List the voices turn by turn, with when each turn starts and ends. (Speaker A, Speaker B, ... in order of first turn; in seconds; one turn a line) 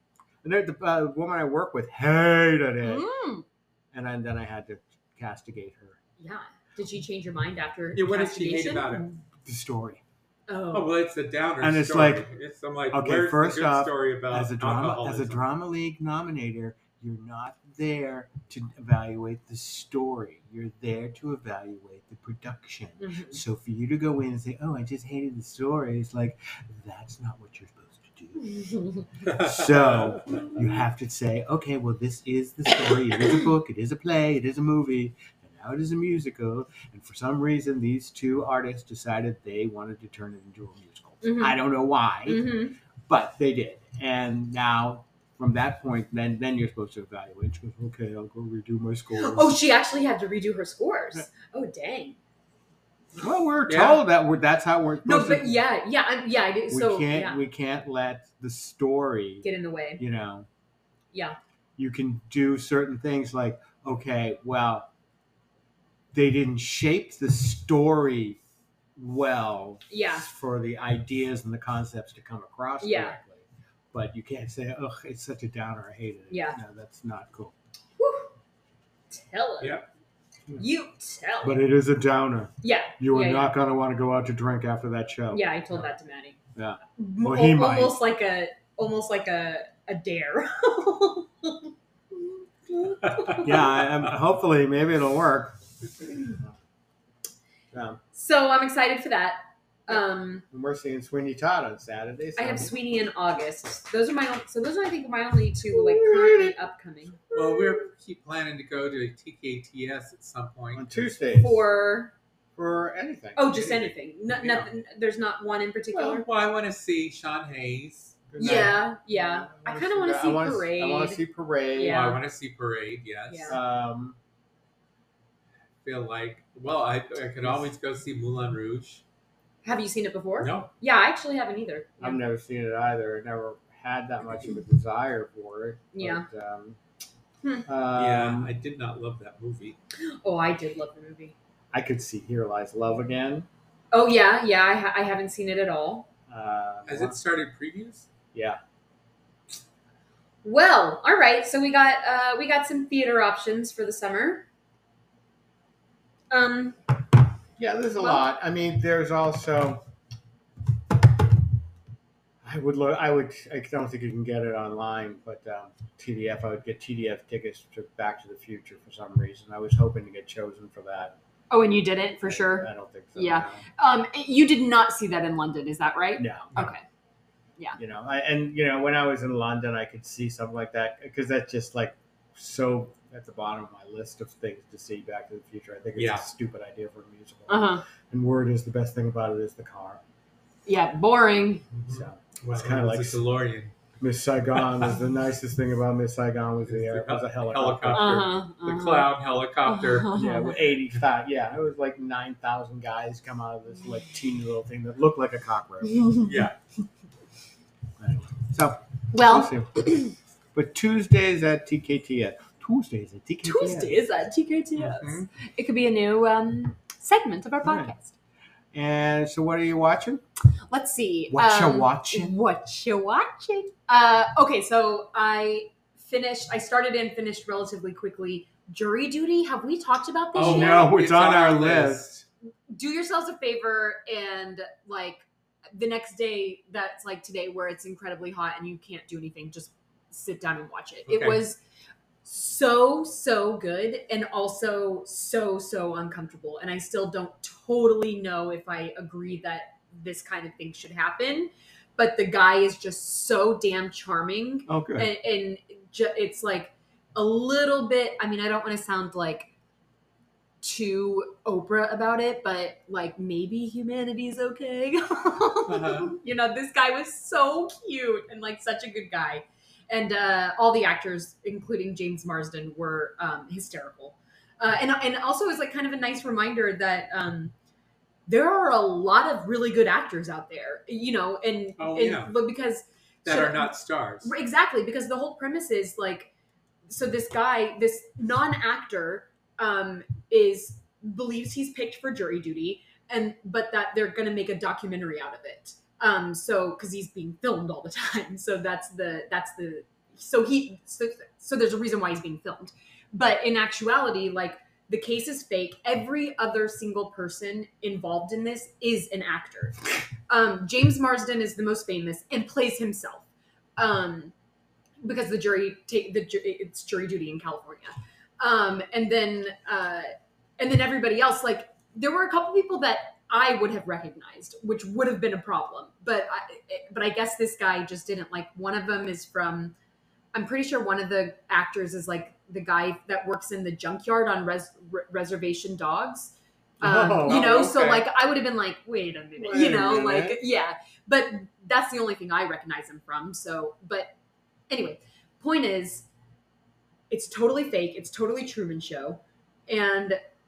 Speaker A: 0.4-3.0
Speaker B: 2.8-3.4
Speaker A: 3.9-6.0
Speaker B: 6.2-9.0
Speaker C: 7.9-9.1
Speaker A: 9.4-10.0
Speaker B: 10.5-10.9
Speaker C: 10.7-15.4
Speaker A: 11.6-12.2
Speaker A: 12.9-28.6
Speaker B: 23.0-23.4
Speaker B: 28.4-29.0
Speaker A: 29.2-42.5
Speaker C: 29.2-30.5
Speaker B: 41.2-41.6
Speaker B: 42.2-42.8
Speaker A: 43.1-49.5
Speaker B: 49.1-52.2
Speaker A: 53.2-55.5
Speaker C: 53.7-54.0
Speaker B: 55.0-57.4
Speaker A: 56.7-59.5
Speaker B: 59.4-60.0
Speaker A: 60.0-60.5
Speaker A: 61.8-64.9
Speaker A: 66.1-68.4
Speaker A: 69.0-77.5
Speaker B: 69.9-70.3
Speaker B: 72.8-73.2
Speaker B: 76.3-76.6
Speaker B: 78.0-78.3
Speaker B: 79.1-79.8
Speaker C: 79.6-79.8
Speaker B: 80.6-81.6
Speaker A: 81.4-85.4
Speaker B: 82.6-83.5
Speaker B: 85.3-86.4
Speaker A: 86.5-88.0
Speaker B: 87.0-91.7
Speaker B: 92.7-93.7
Speaker C: 93.0-93.8
Speaker A: 93.4-96.5
Speaker A: 97.7-98.0
Speaker B: 98.1-100.4
Speaker A: 100.5-102.7
Speaker B: 102.4-107.2
Speaker A: 105.7-106.5
Speaker A: 107.3-107.8
Speaker C: 107.3-111.1
Speaker A: 110.7-111.6
Speaker B: 111.3-112.1
Speaker A: 112.5-113.7
Speaker B: 113.3-116.2
Speaker C: 115.9-118.4
Speaker A: 118.3-122.1
Speaker B: 118.4-121.2
Speaker B: 121.7-122.2
Speaker C: 121.8-123.6
Speaker B: 123.3-123.6
Speaker A: 123.5-124.2
Speaker C: 125.8-129.0
Speaker B: 129.6-132.2
Speaker C: 130.4-130.7
Speaker A: 132.0-136.8
Speaker B: 135.9-136.2
Speaker A: 137.7-138.5
Speaker C: 137.9-139.8
Speaker B: 140.0-141.3
Speaker A: 141.7-143.5
Speaker B: 143.9-146.1
Speaker A: 146.3-147.2
Speaker C: 146.9-148.1
Speaker A: 148.3-148.6
Speaker B: 150.4-154.5
Speaker B: 156.3-156.8
Speaker A: 157.6-159.8
Speaker B: 158.0-158.2
Speaker A: 162.4-171.2
Speaker B: 171.5-176.8
Speaker A: 172.2-173.6
Speaker A: 176.2-176.6
Speaker A: 177.8-190.0
Speaker C: 185.9-186.2
Speaker B: 187.5-187.8
Speaker B: 190.7-191.7
Speaker C: 191.7-193.7
Speaker A: 191.9-193.2
Speaker A: 194.0-198.2
Speaker C: 194.6-194.9
Speaker C: 196.7-200.2
Speaker B: 197.9-199.1
Speaker B: 199.7-200.6
Speaker A: 200.1-206.1
Speaker B: 205.9-206.3
Speaker C: 206.2-206.5
Speaker A: 208.0-210.0
Speaker B: 209.1-210.1
Speaker A: 210.5-214.0
Speaker B: 213.4-218.1
Speaker A: 217.6-217.9
Speaker A: 218.7-220.2
Speaker B: 220.7-230.9
Speaker A: 221.3-222.4
Speaker C: 230.3-232.2
Speaker A: 230.4-232.1
Speaker B: 232.7-241.6
Speaker C: 241.1-241.4
Speaker B: 242.2-259.5
Speaker A: 254.7-255.1
Speaker B: 260.6-277.5
Speaker C: 265.7-266.1
Speaker B: 278.3-286.3
Speaker C: 281.8-282.4
Speaker C: 283.2-284.3
Speaker B: 286.9-313.2
Speaker B: 313.8-314.3
Speaker B: 315.0-329.7
Speaker B: 330.3-344.1
Speaker A: 336.8-337.5
Speaker C: 337.2-338.1
Speaker A: 339.4-340.4
Speaker B: 344.7-346.1
Speaker B: 347.1-350.2